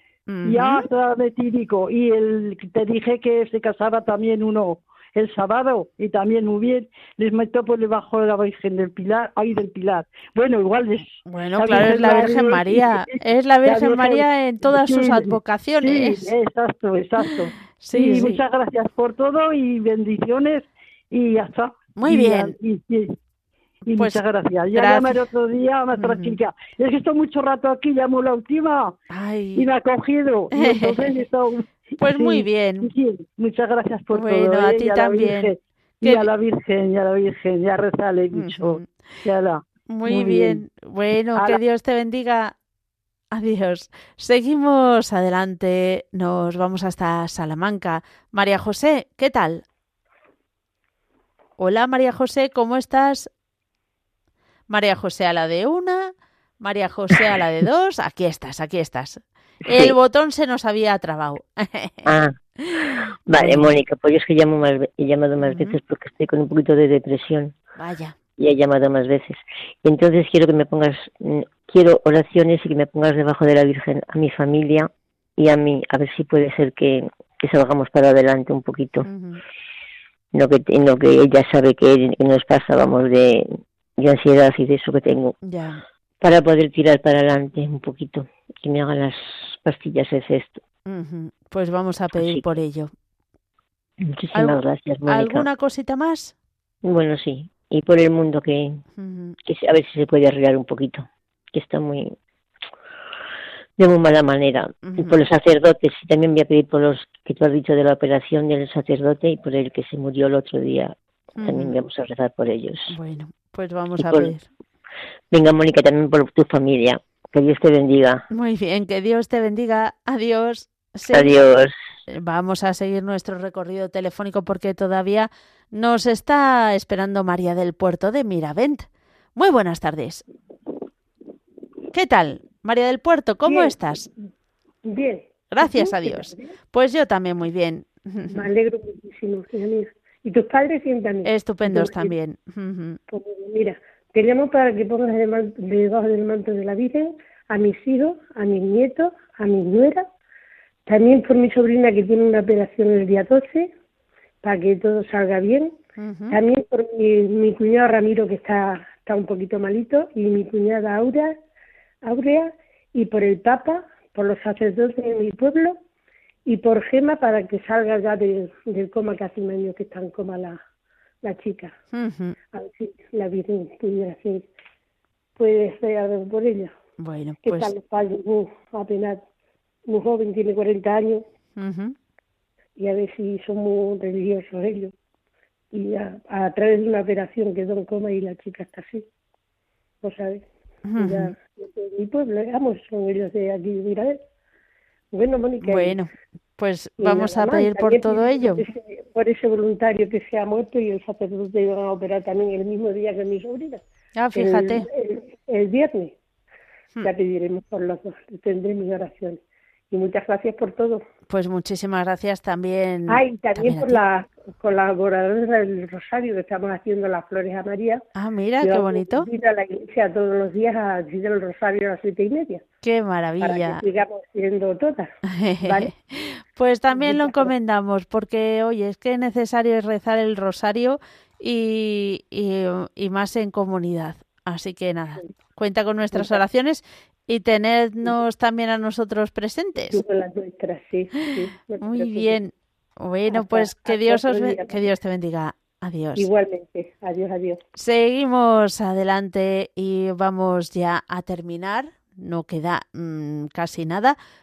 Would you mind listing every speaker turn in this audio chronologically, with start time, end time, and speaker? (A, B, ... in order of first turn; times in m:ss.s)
0:00.3-0:00.9 A
0:00.4-0:23.2 B
0:11.3-0:16.3 A
0:17.8-0:18.4 A
0:22.0-0:22.6 A
0:23.9-0:29.0 B
0:23.9-0:25.2 A
0:25.9-0:26.4 A
0:29.1-0:29.7 A
0:29.6-0:40.6 B
0:30.6-0:31.2 A
0:32.0-0:32.9 A
0:34.1-0:36.3 A
0:38.3-0:38.9 A
0:39.9-0:42.6 A
0:43.3-0:49.6 A
0:51.6-0:53.3 A
0:54.7-1:02.1 A
0:59.7-1:00.0 C
1:02.1-1:02.4 C
1:02.6-1:03.8 A
1:03.3-1:07.6 C
1:05.4-1:05.8 A
1:07.8-1:08.2 A
1:08.4-1:19.1 C
1:19.0-1:19.4 A
1:20.3-1:25.4 C
1:25.4-1:25.8 A
1:26.2-1:30.6 C
1:30.9-1:32.9 A
1:32.2-1:32.5 C
1:34.0-1:35.5 C
1:34.3-1:36.3 A
1:36.9-1:38.8 C
1:39.0-1:39.4 A
1:39.5-1:42.2 C
1:43.8-1:52.9 C
1:44.8-1:45.2 A
1:51.4-1:51.7 A
1:52.9-1:54.5 A
1:54.0-1:54.3 C
1:55.3-1:58.2 C
1:58.3-2:01.4 A
2:01.1-2:01.8 C
2:02.1-2:10.2 A
2:11.9-2:14.1 A
2:13.5-2:13.8 D
2:14.8-2:16.5 D
2:15.5-2:18.4 A
2:18.3-2:22.1 D
2:21.2-2:23.0 A
2:23.1-2:30.0 D
2:30.9-2:33.7 D
2:34.4-2:35.8 D
2:36.0-2:36.4 A
2:36.3-2:41.4 D
2:42.0-2:45.8 D
2:46.5-2:50.6 D
2:51.2-2:51.7 D
2:51.9-2:52.4 A
2:52.5-2:54.5 D
2:55.4-2:56.7 D
2:57.0-2:57.7 A
2:57.4-2:59.2 D
2:59.9-3:01.2 D
3:01.6-3:02.0 A
3:02.8-3:04.9 D
3:05.7-3:09.1 D
3:10.0-3:14.2 D
3:10.8-3:11.3 A
3:15.1-3:16.0 D
3:15.6-3:18.6 A
3:17.0-3:23.8 D
3:24.2-3:24.9 A
3:24.3-3:26.1 D
3:27.0-3:29.4 D
3:29.9-3:31.0 D
3:31.3-3:34.0 A
3:33.1-3:38.0 D
3:38.2-3:39.3 A
3:38.6-3:42.6 D
3:42.8-3:43.8 A
3:43.4-3:45.1 D
3:45.3-4:00.0 A
3:45.6-3:45.9 D
3:46.9-3:47.5 D
3:56.1-3:56.4 D
3:59.9-4:02.4 D
4:01.2-4:06.3 A
4:03.3-4:04.8 D
4:06.2-4:07.6 D
4:07.8-4:14.2 A